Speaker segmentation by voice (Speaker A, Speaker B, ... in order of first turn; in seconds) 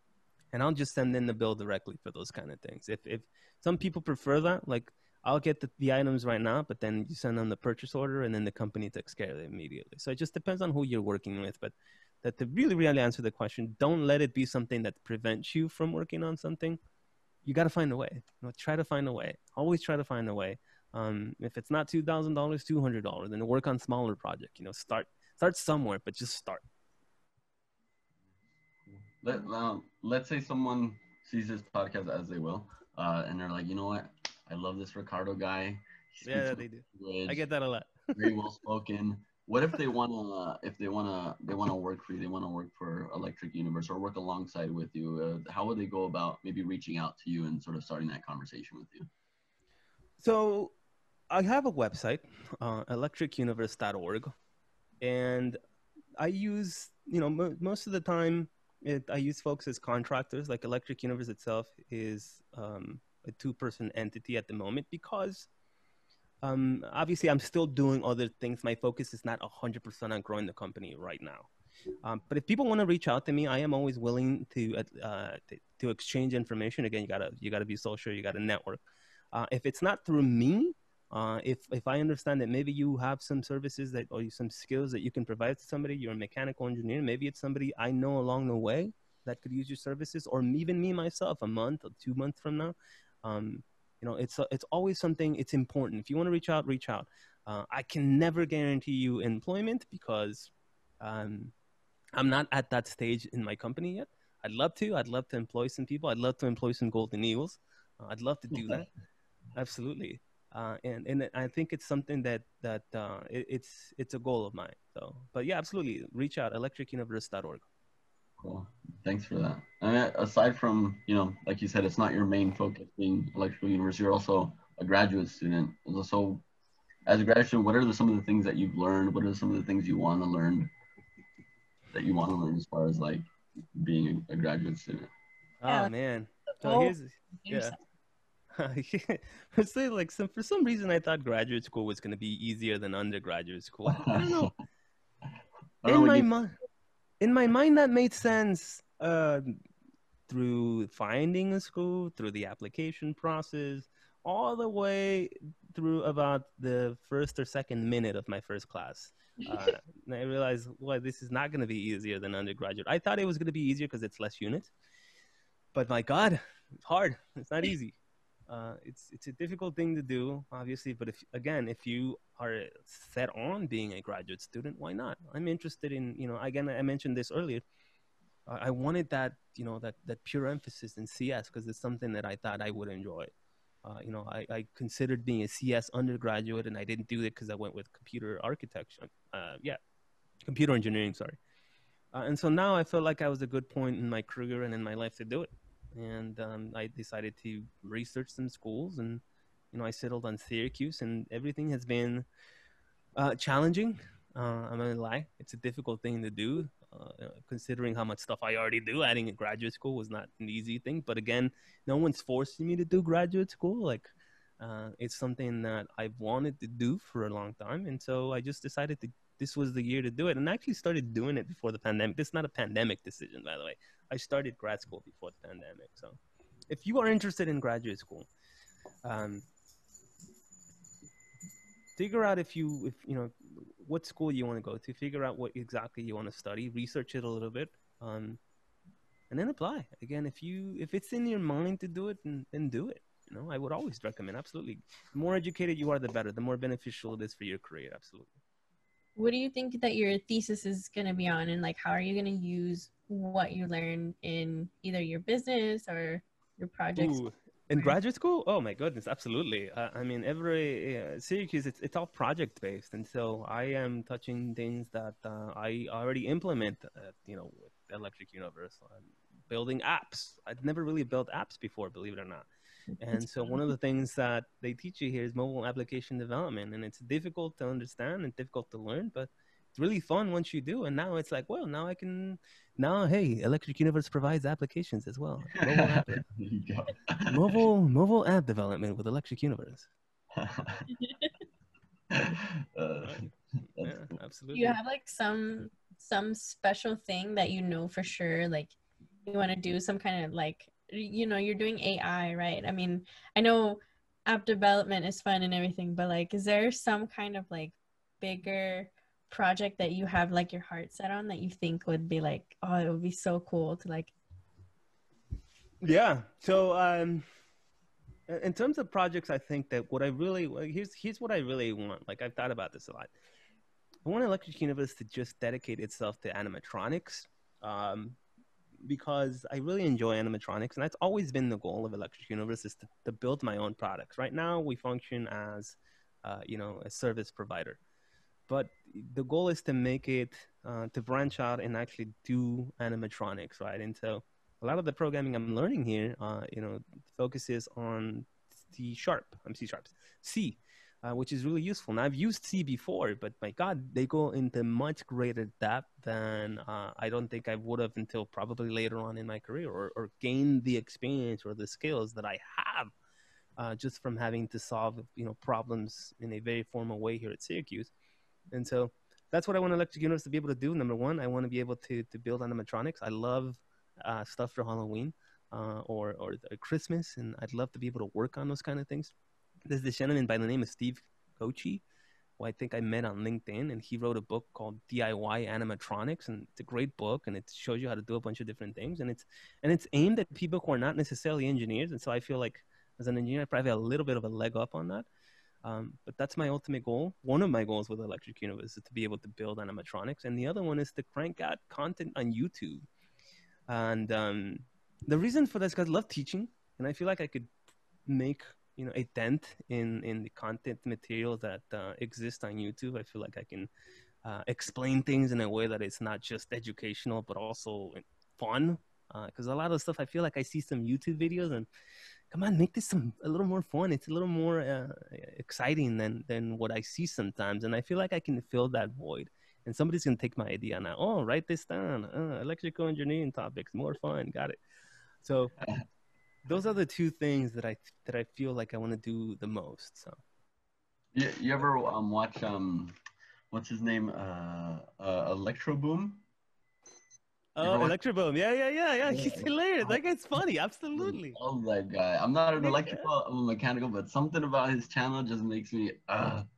Speaker A: 0.5-16.8, 17.4-26.6, 36.2-38.3, 50.2-50.7, 51.3-54.3, 55.0-55.6, 56.2-65.5, 66.4-71.5, 72.0-78.8, 79.3-101.5, 102.1-108.9, 109.5-117.6, 135.6-137.7, 138.5-144.5, 145.8-146.5, 147.2-149.6, 150.3-164.7, 165.7-167.9, 168.5-177.6, 178.5-183.3, 183.8-189.8, 190.5-191.4, 192.1-202.2, 203.2-214.1, 214.6-226.2, 226.7-228.3, 229.0-229.4, 231.9-238.4, 239.3-248.4, 256.9-272.5, 273.0-286.2, 287.3-289.9, 293.0-294.8, 315.8-317.2, 318.3-323.1, 324.0-328.2, 328.8-337.8, 338.5-362.9, 363.6-367.9, 368.5-379.1, 379.7-381.8, 382.4-395.1, 395.6-402.8, 403.7-407.5, 408.1-413.7, 414.2-421.7, 422.3-434.6, 435.2-435.5, 436.4-440.1, 447.6-451.4, 452.6-453.1
Speaker B: 29.2-37.4, 38.1-49.1, 108.5-108.8, 118.4-126.4, 127.0-130.7, 131.9-135.1, 143.9-144.5, 145.8-146.3, 285.6-287.6, 290.3-290.9, 292.1-294.1, 441.1-442.9, 443.5-446.2, 447.6-447.9, 449.0-450.0, 450.9-456.5
Speaker C: 135.7-135.9, 136.5-137.8, 249.2-257.2, 273.1-273.5, 294.5-298.7, 299.3-314.1